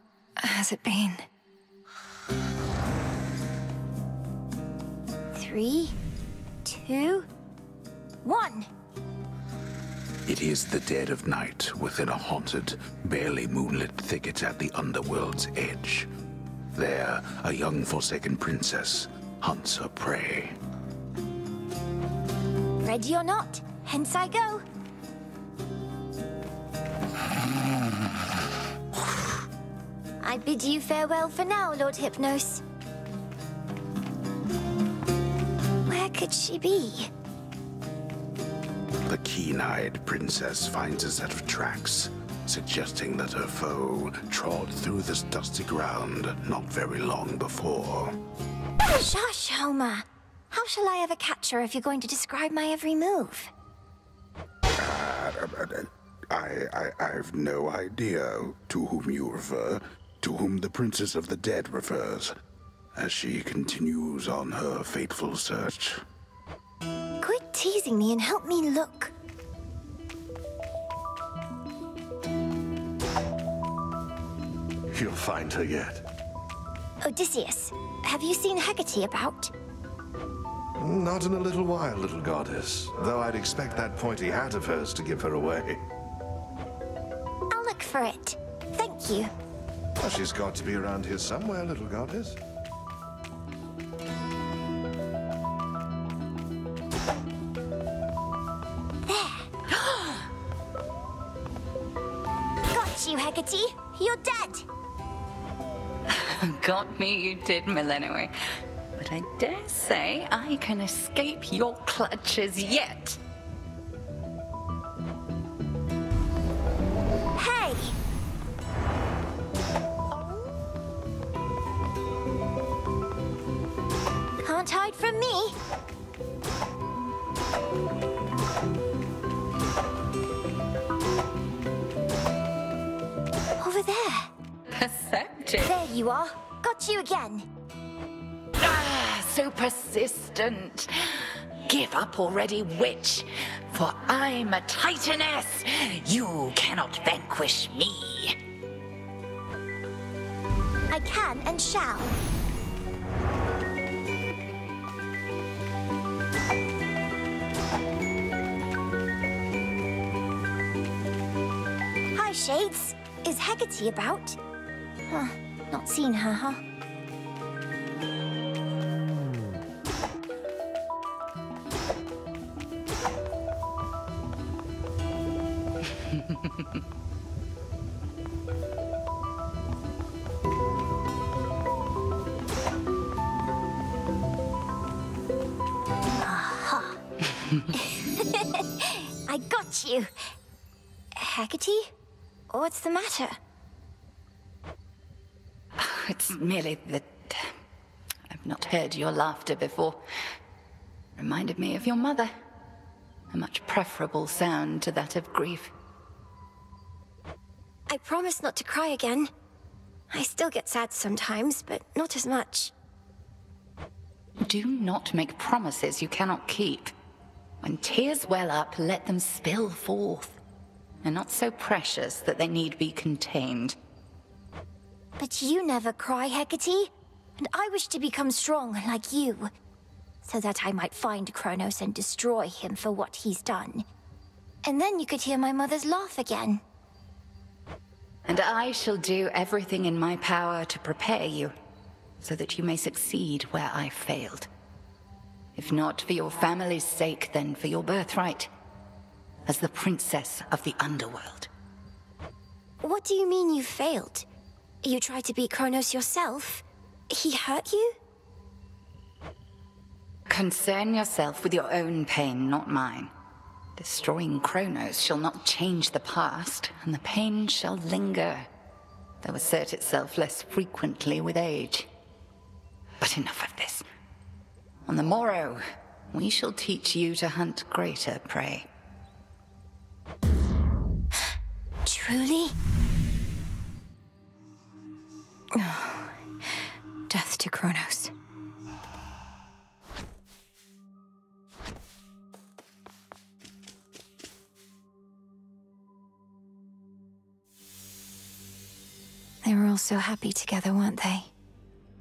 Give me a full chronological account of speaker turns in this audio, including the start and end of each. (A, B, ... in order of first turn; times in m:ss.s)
0:00.4-0:01.3 A
0:05.3-0:06.0 A
0:06.6-0:07.3 A
0:08.2-0:08.7 A
0:10.3-0:16.1 B
0:16.8-0:20.6 B
0:22.8-0:24.6 A
0:30.2-0:32.6 A
0:35.9-0:37.1 A
0:39.1-0:48.2 B
0:48.9-0:53.5 A
0:54.8-1:02.3 B
1:03.0-1:06.0 B
1:07.2-1:09.1 A
1:14.9-1:16.0 C
1:17.0-1:19.5 A
1:20.8-1:25.8 C
1:27.5-1:29.3 A
1:30.0-1:32.4 C
1:39.0-1:39.5 A
1:39.7-1:40.2 D
1:42.7-1:44.7 A
1:46.1-1:48.3 D
1:49.0-1:53.2 D
1:57.4-1:58.0 A
2:04.4-2:05.5 A
2:13.6-2:14.3 A
2:14.7-2:15.8 D
2:15.6-2:17.5 A
2:18.6-2:28.4 D
2:30.9-2:32.1 A
2:42.1-2:44.4 A
2:45.1-2:46.6 A
2:56.1-2:56.6 D
3:06.2-3:07.0 A
3:07.7-3:10.1 A
3:11.2-3:11.9 A
3:12.5-3:13.4 A
3:15.8-3:17.5 D
3:18.3-3:20.0 D
3:21.2-3:22.3 D
3:23.3-3:25.7 D
3:27.9-3:29.3 A
3:30.1-3:32.7 A
3:34.4-3:36.9 D
3:37.6-3:40.4 D
3:41.0-3:43.8 D
3:45.2-3:49.5 A
3:50.2-3:53.9 A
3:54.6-3:56.6 A
3:58.3-4:01.5 D
4:02.2-4:04.5 D
4:05.6-4:08.5 D
4:09.5-4:11.5 D
4:12.8-4:14.3 A
4:14.8-4:18.0 A
4:20.3-4:23.1 D
4:23.8-4:28.5 D
4:29.2-4:31.9 D
4:33.0-4:33.8 D
4:34.9-4:38.7 D
4:41.8-4:42.5 A
4:45.5-4:46.2 A
4:47.1-4:48.1 A
4:59.4-5:01.3 A